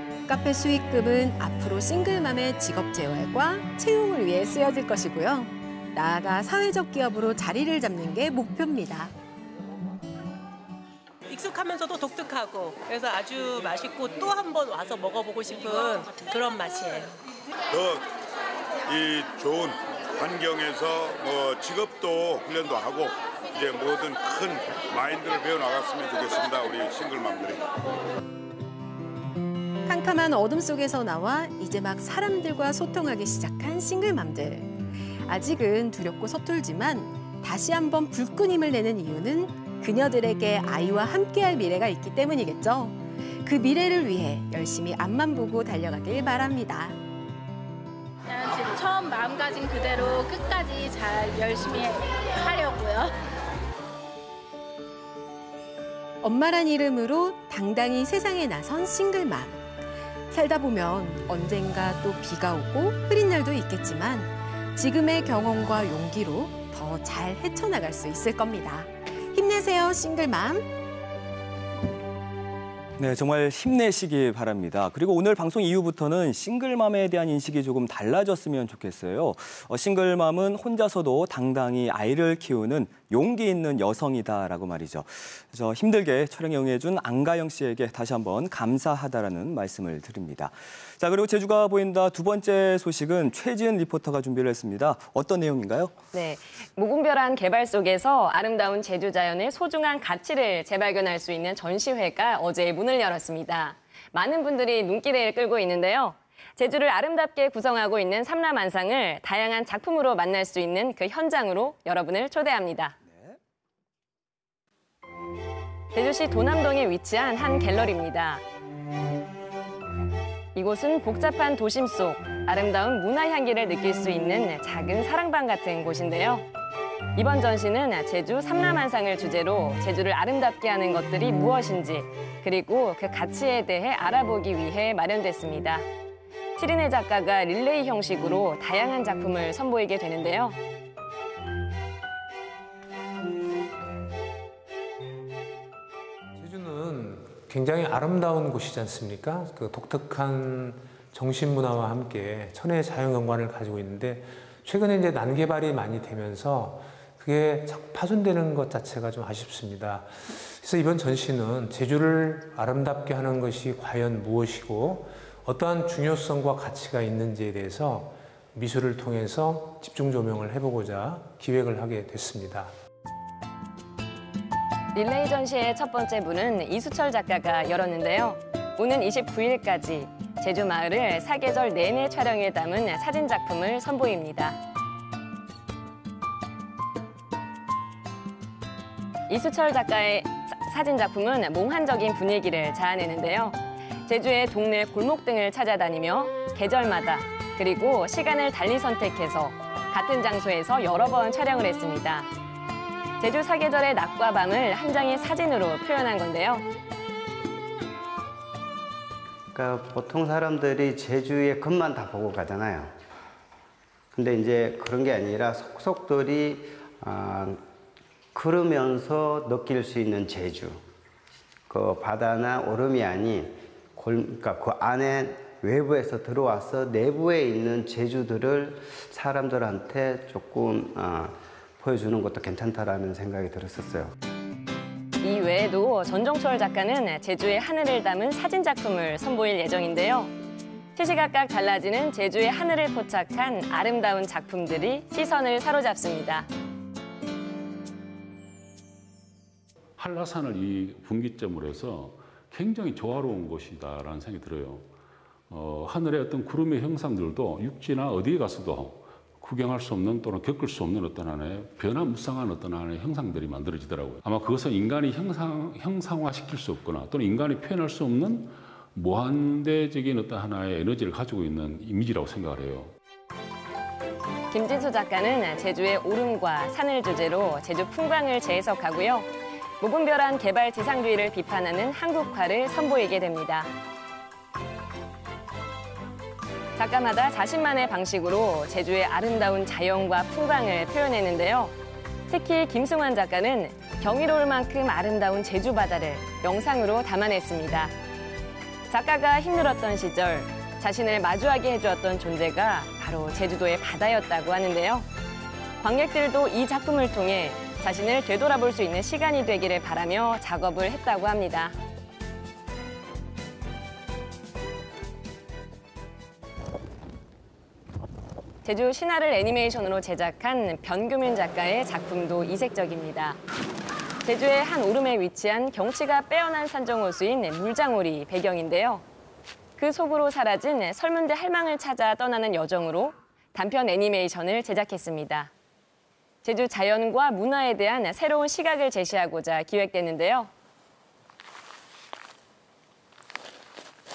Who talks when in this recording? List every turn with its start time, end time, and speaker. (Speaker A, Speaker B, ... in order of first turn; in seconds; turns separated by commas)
Speaker A: 0.3-9.1, Speaker B: 11.3-17.2, Speaker C: 17.7-18.1, Speaker C: 18.9-27.7, Speaker A: 29.9-47.0, Speaker D: 48.3-53.2, Speaker A: 56.2-59.7, Speaker A: 60.3-70.7, Speaker E: 73.0-96.0, Speaker F: 96.1-113.0, Speaker E: 113.1-113.4, Speaker F: 115.9-118.4, Speaker F: 120.5-126.5, Speaker F: 127.2-135.9, Speaker F: 136.6-140.6, Speaker G: 146.4-172.7, Speaker F: 174.9-184.6, Speaker F: 189.3-202.3, Speaker F: 203.2-206.7, Speaker H: 209.5-212.9, Speaker H: 214.1-217.6, Speaker H: 218.3-220.8, Speaker H: 221.7-234.1, Speaker F: 235.2-240.3, Speaker F: 241.0-246.5, Speaker I: 250.0-254.9, Speaker I: 255.5-272.9, Speaker F: 274.5-279.3, Speaker F: 279.8-283.7, Speaker F: 286.8-291.8, Speaker F: 292.3-297.9, Speaker F: 298.9-305.1, Speaker F: 305.8-311.8, Speaker F: 318.6-323.4, Speaker F: 324.2-329.1, Speaker F: 329.8-335.5, Speaker F: 336.4-340.5